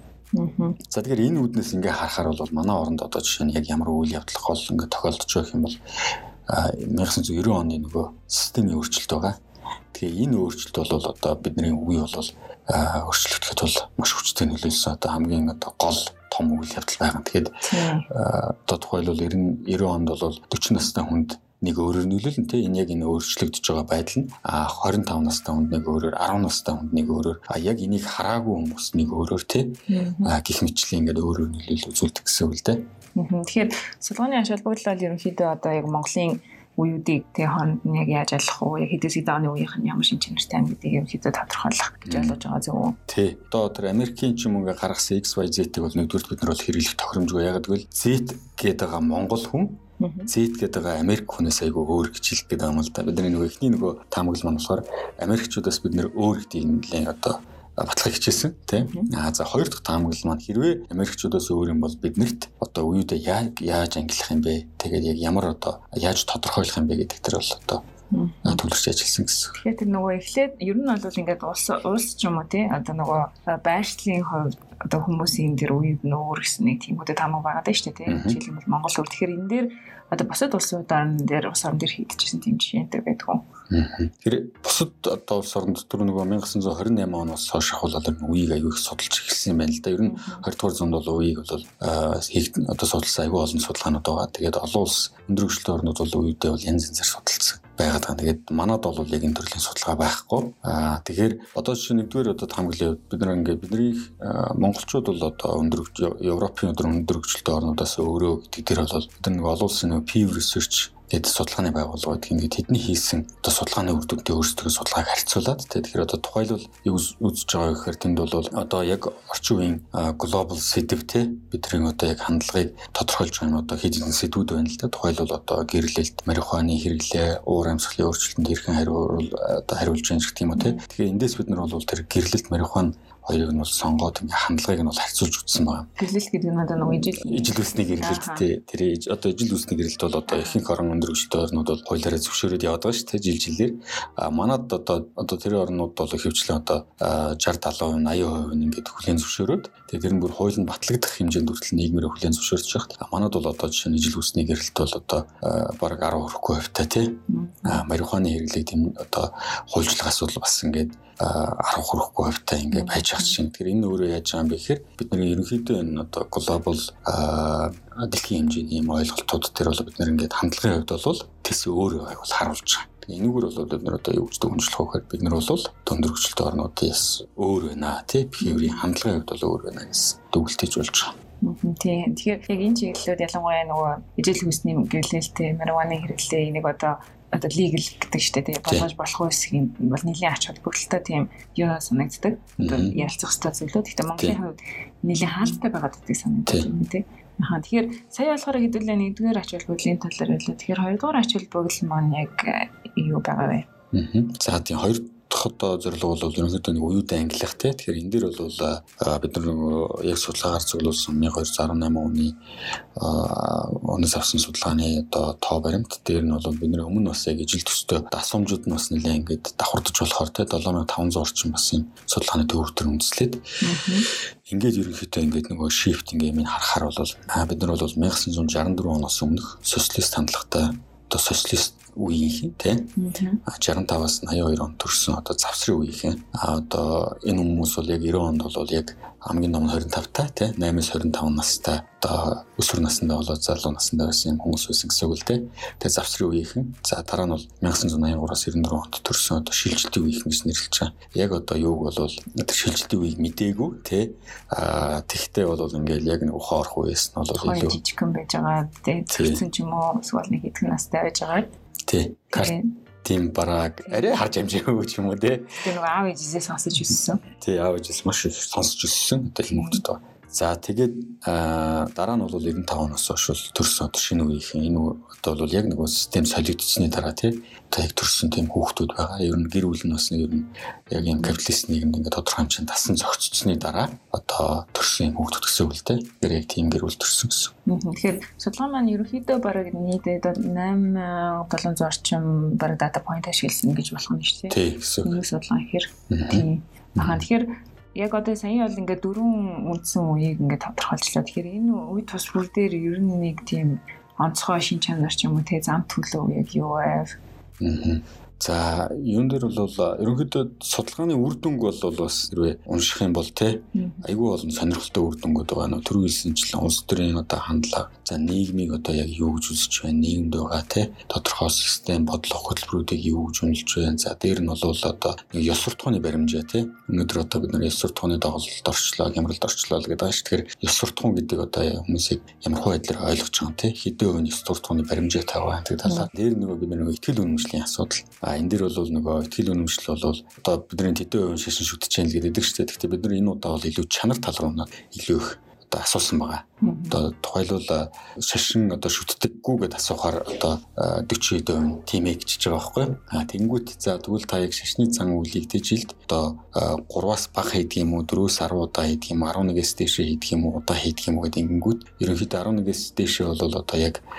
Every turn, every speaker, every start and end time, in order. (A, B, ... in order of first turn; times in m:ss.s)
0:00.3-0:00.8 A
0:00.9-0:05.8 B
0:06.5-0:09.4 B
0:09.9-0:32.8 B
0:17.6-0:18.1 A
0:29.9-0:30.3 A
0:33.1-0:43.0 A
0:42.0-0:42.4 B
0:43.1-1:07.8 B
0:50.0-0:50.3 A
0:58.8-0:59.1 A
1:08.1-1:08.6 A
1:08.4-1:09.5 B
1:09.5-1:23.4 A
1:18.1-1:18.4 B
1:23.7-2:15.9 B
1:30.0-1:30.4 A
2:10.6-2:10.8 A
2:16.0-2:18.5 A
2:17.1-3:01.1 B
2:20.3-2:20.6 A
2:37.3-2:37.8 A
2:42.7-2:43.4 A
2:58.4-2:58.8 A
3:01.4-3:23.7 A
3:12.6-3:13.0 B
3:23.9-3:32.4 B
3:33.0-3:43.4 B
3:43.6-3:44.1 A
3:44.4-3:52.9 B
3:53.0-3:53.4 A
3:53.4-4:17.8 B
4:17.3-4:21.5 A
4:19.1-4:19.4 B
4:21.9-4:25.6 B
4:22.3-4:22.6 A
4:23.8-4:24.2 A
4:25.6-4:27.2 A
4:27.4-4:47.5 B
4:29.5-4:29.8 A
4:41.0-4:41.4 A
4:47.6-5:07.1 A
4:54.5-4:55.2 B
4:56.1-4:57.2 B
5:07.6-6:04.0 B
5:13.7-5:14.1 A
5:46.6-5:47.0 A